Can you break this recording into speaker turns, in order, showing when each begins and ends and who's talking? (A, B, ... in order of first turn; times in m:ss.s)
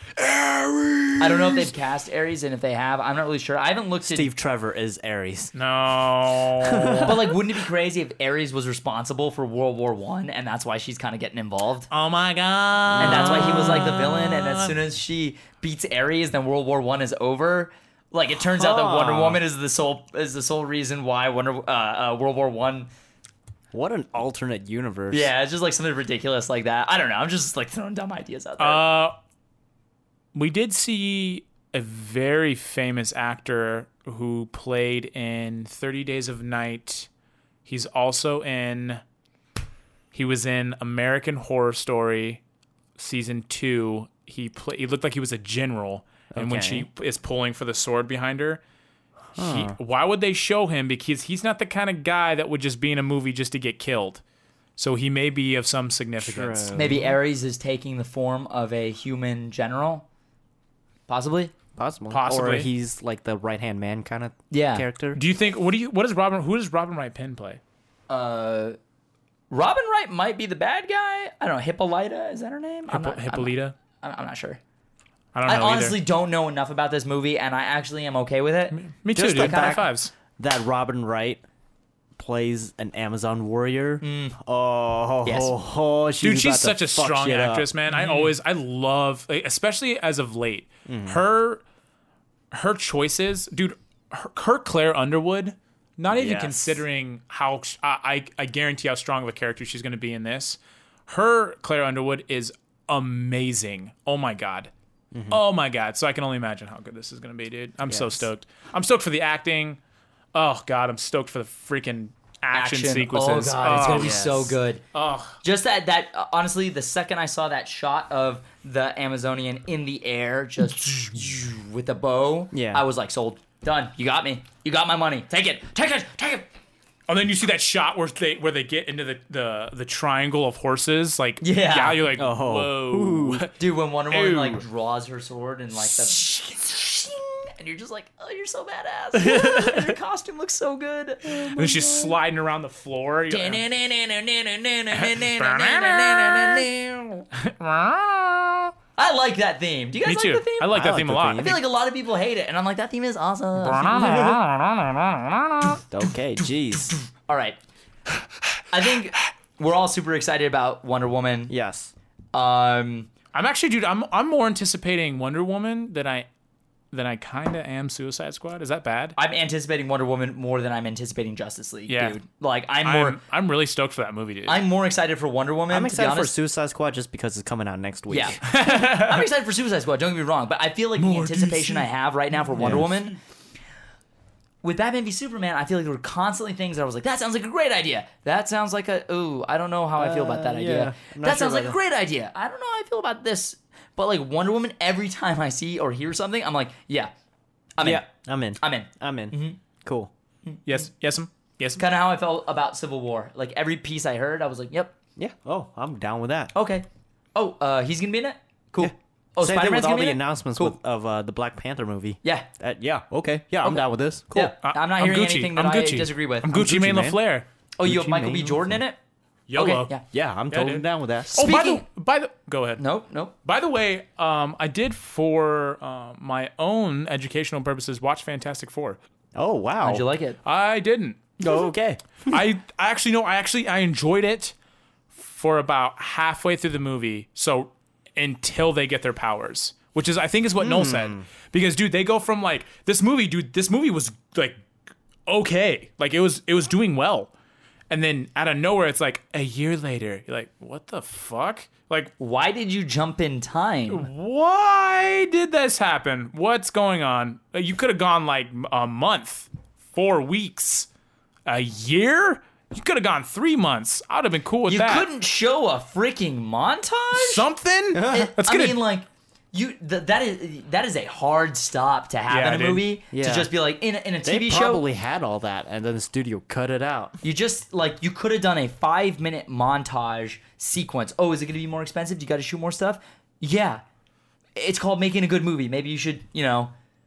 0:00.2-0:01.7 A
0:01.2-0:04.3 B
0:04.0-0:05.5 C
0:05.5-0:07.2 A
0:06.6-0:07.3 C
0:07.0-0:11.9 B
0:11.9-0:14.5 A
0:12.9-0:14.2 C
0:13.0-0:22.9 B
0:18.5-0:19.4 C
0:23.7-0:25.3 C
0:25.1-0:28.8 B
0:28.6-0:29.2 A
0:30.3-0:37.1 A
0:37.6-0:39.0 A
0:40.1-0:42.4 A
0:43.0-0:48.6 A
0:46.3-0:46.9 C
0:49.4-0:49.8 C
0:49.4-0:54.2 A
0:54.8-0:57.0 A
0:56.2-0:57.1 C
0:56.7-1:00.0 B
1:01.1-1:01.5 B
1:01.8-1:05.2 C
1:02.1-1:02.7 A
1:04.5-1:04.8 B
1:05.1-1:07.6 A
1:08.1-1:08.8 B
1:09.5-1:14.6 B
1:12.9-1:13.7 A
1:15.3-1:16.0 A
1:15.4-1:18.8 B
1:18.7-1:20.1 A
1:19.1-1:21.4 C
1:19.4-1:19.7 B
1:22.2-1:27.7 C
1:24.0-1:24.3 B
1:25.2-1:25.5 B
1:26.2-1:31.6 A
1:27.9-1:28.3 B
1:30.9-1:31.2 C
1:32.5-1:44.7 A
1:36.1-1:36.8 C
1:45.1-1:45.4 C
1:45.3-1:49.8 A
1:47.9-1:48.2 C
1:50.3-1:54.4 A
1:52.5-1:54.8 B
1:53.7-1:54.5 C
1:54.9-1:55.4 A
1:55.4-2:06.5 B
2:02.5-2:02.8 C
2:07.1-2:13.5 A
2:11.4-2:12.1 B
2:12.2-2:13.5 C
2:13.5-2:22.1 B
2:14.1-2:14.6 A
2:15.8-2:17.0 A
2:19.1-2:19.9 A
2:21.2-2:23.6 A
2:23.3-2:27.2 B
2:24.9-2:26.7 A
2:27.4-2:28.7 A
2:29.0-2:30.8 B
2:30.0-2:31.6 A
2:30.7-2:31.6 C
2:31.4-2:34.2 B
2:33.6-2:35.8 A
2:33.9-2:34.4 C
2:35.9-2:36.9 C
2:37.3-2:37.6 B
2:38.7-2:41.5 B
2:41.5-2:41.9 C
2:42.3-2:43.1 B
2:43.3-2:46.3 A
2:46.9-2:49.2 A
2:49.2-2:53.2 B
2:51.9-2:52.2 A
2:52.8-2:54.6 A
2:54.5-2:56.3 B
2:55.7-2:58.4 C
2:58.1-3:03.2 B
2:58.4-2:59.3 A
3:01.0-3:01.9 A
3:02.6-3:02.9 C
3:04.6-3:17.1 B
3:10.0-3:11.8 C
3:17.8-3:18.1 B
3:17.8-3:20.1 C
3:18.6-3:19.6 B
3:20.4-3:20.8 B
3:20.6-3:21.8 A
3:21.8-3:24.9 B
3:25.2-3:26.5 C
3:26.5-3:30.8 B
3:28.8-3:34.5 C
3:32.2-3:32.5 B
3:34.3-3:36.5 B
3:34.6-3:37.4 A
3:36.5-3:37.2 C
3:37.8-3:39.0 B
3:37.8-3:38.8 C
3:39.5-3:39.9 A
3:39.5-3:40.0 B
3:40.1-3:41.4 C
3:40.5-3:42.8 A
3:41.3-3:41.8 B
3:42.8-3:43.3 B
3:43.4-3:49.0 A
3:49.3-3:50.0 C
3:49.8-3:50.4 B
3:50.4-3:51.3 A
3:51.4-3:52.4 C
3:52.2-3:54.5 A
3:55.1-4:04.6 A
4:00.6-4:01.2 C
4:05.3-4:07.3 A
4:07.9-4:12.1 A
4:12.2-4:14.1 B
4:13.9-4:20.9 A
4:21.4-4:25.1 A
4:24.7-4:27.4 B
4:27.1-4:28.8 A
4:27.9-4:28.3 C
4:28.0-4:34.8 B
4:32.3-4:32.9 A
4:33.1-4:33.5 C
4:34.2-4:37.2 C
4:37.2-4:43.8 B
4:44.6-4:46.7 B